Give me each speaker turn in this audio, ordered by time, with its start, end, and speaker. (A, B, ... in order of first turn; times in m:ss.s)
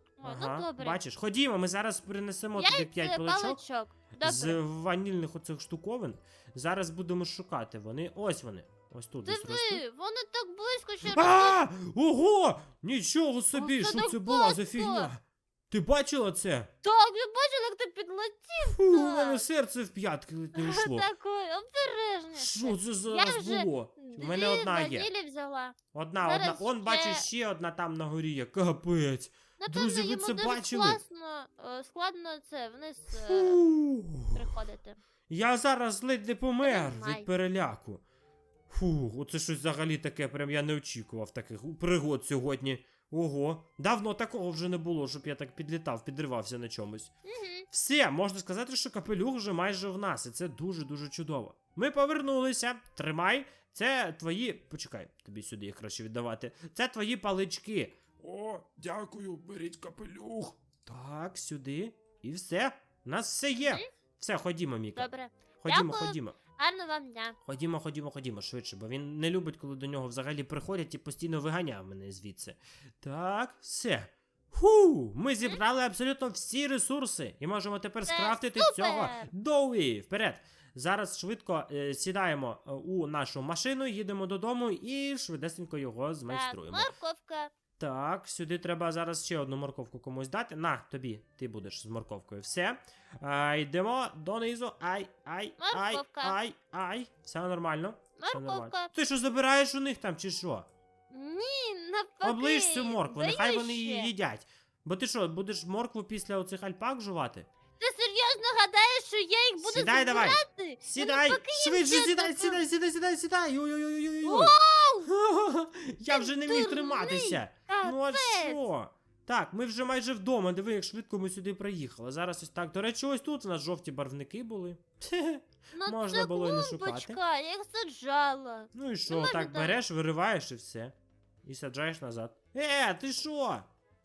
0:00.2-0:01.0 A
0:00.2-0:03.6 B
0:02.5-0:04.6 A
0:04.2-0:09.8 B
0:09.2-0:11.6 A
0:11.1-0:16.7 B
0:13.5-0:15.1 A
0:16.8-0:19.5 A
0:18.6-0:21.1 B
0:20.5-0:27.3 A
0:22.4-0:25.1 B
0:25.9-0:31.0 B
0:29.6-0:33.6 A
0:33.1-0:34.4 B
0:34.3-0:35.0 A
0:35.3-0:38.0 B
0:36.6-0:37.3 A
0:38.7-0:47.1 B
0:47.2-0:47.7 A
0:47.7-0:58.0 B
0:58.2-1:00.6 C
1:00.9-1:05.1 B
1:03.6-1:03.8 A
1:05.0-1:07.4 A
1:05.6-1:06.4 B
1:07.4-1:26.9 B
1:18.1-1:19.3 A
1:26.3-1:27.5 A
1:27.8-1:40.7 B
1:35.6-1:36.4 A
1:38.2-1:38.9 A
1:41.1-1:44.1 A
1:42.2-1:47.5 B
1:47.8-1:52.6 A
1:49.6-2:07.2 B
1:54.2-1:55.1 A
1:56.1-1:58.6 A
2:05.7-2:09.8 A
2:08.7-2:13.7 B